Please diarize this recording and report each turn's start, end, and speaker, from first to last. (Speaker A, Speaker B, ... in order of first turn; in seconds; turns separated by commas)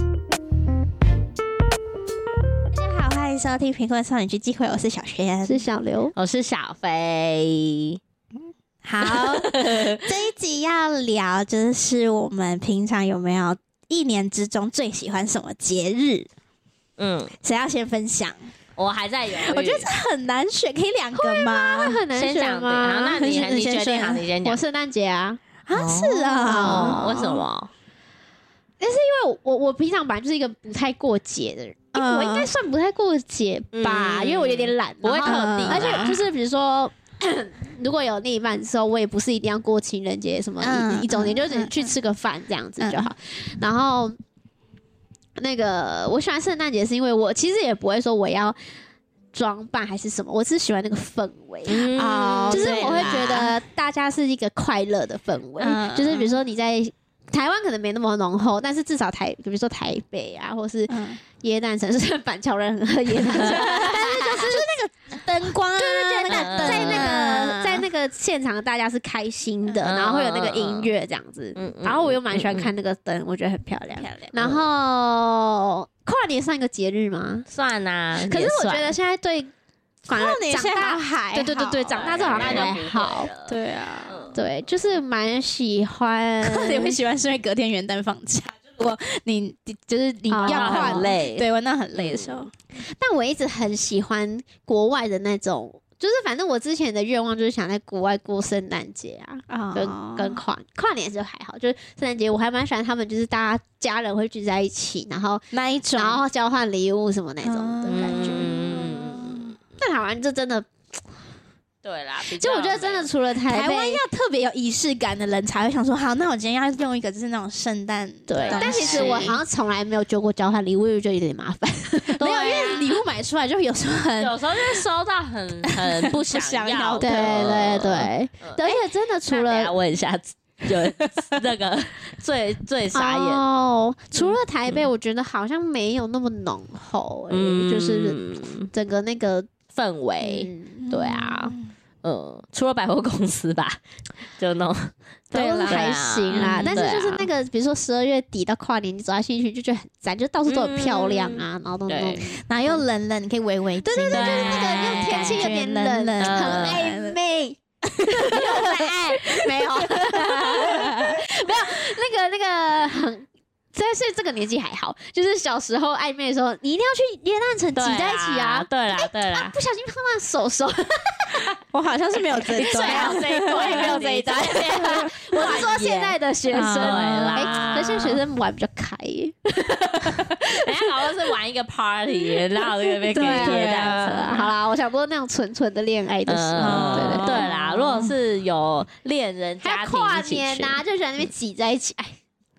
Speaker A: 2.7-5.6, Speaker B: 5.4-6.1, Speaker C: 6.2-8.0, Speaker A: 8.8-16.3, Speaker C: 9.0-10.0, Speaker C: 17.0-17.3, Speaker A: 17.4-18.4, Speaker C: 18.8-19.9, Speaker A: 19.4-22.0, Speaker B: 21.1-25.4, Speaker C: 22.1-24.6, Speaker A: 23.2-24.2, Speaker A: 25.6-27.4, Speaker C: 25.7-27.7, Speaker B: 26.4-27.1, Speaker B: 28.8-44.2, Speaker A: 31.9-32.5, Speaker C: 33.7-36.1, Speaker A: 35.2-36.2, Speaker A: 40.6-41.9, Speaker A: 42.8-43.1, Speaker B: 45.4-48.6, Speaker B: 49.3-64.6, Speaker C: 51.7-53.4, Speaker A: 51.9-53.5, Speaker A: 55.6-56.3, Speaker A: 60.9-61.2, Speaker A: 63.1-67.8, Speaker B: 65.7-77.5, Speaker C: 66.3-67.5, Speaker C: 69.8-70.9, Speaker C: 71.5-72.7, Speaker A: 74.0-74.3, Speaker C: 74.4-74.6, Speaker C: 77.5-78.9, Speaker B: 78.2-79.5, Speaker B: 80.0-83.3, Speaker A: 80.1-82.7, Speaker C: 81.9-84.4, Speaker A: 83.5-84.3, Speaker B: 84.3-87.0, Speaker A: 86.4-92.5, Speaker B: 90.3-91.1, Speaker C: 90.5-92.5, Speaker B: 92.8-109.0, Speaker A: 99.5-100.4, Speaker A: 105.5-106.2, Speaker A: 107.4-109.5, Speaker C: 107.9-109.5, Speaker B: 109.8-111.0, Speaker C: 111.8-113.1, Speaker B: 112.3-114.0, Speaker A: 113.5-119.4, Speaker B: 118.3-122.2, Speaker C: 118.3-119.3, Speaker A: 122.2-124.8, Speaker C: 122.2-123.0, Speaker C: 124.2-128.6, Speaker A: 125.6-127.6, Speaker B: 127.0-129.7, Speaker C: 129.3-133.4, Speaker A: 130.7-131.2, Speaker B: 132.9-139.5, Speaker C: 137.3-138.7, Speaker C: 139.7-143.8, Speaker B: 140.2-140.8, Speaker A: 140.9-141.6, Speaker C: 144.3-144.9, Speaker B: 145.3-152.8, Speaker A: 145.3-146.9, Speaker C: 145.7-147.3, Speaker C: 150.5-152.2, Speaker A: 152.5-157.2, Speaker B: 153.8-171.5, Speaker C: 154.1-155.5, Speaker C: 156.2-156.8, Speaker A: 157.9-161.2, Speaker C: 167.8-169.5, Speaker A: 171.7-175.7, Speaker B: 172.3-181.3, Speaker C: 172.6-178.2, Speaker A: 176.5-178.0, Speaker C: 180.5-184.5, Speaker B: 182.6-187.5, Speaker A: 183.1-184.5, Speaker C: 186.3-190.8, Speaker A: 186.6-188.1, Speaker B: 189.6-192.2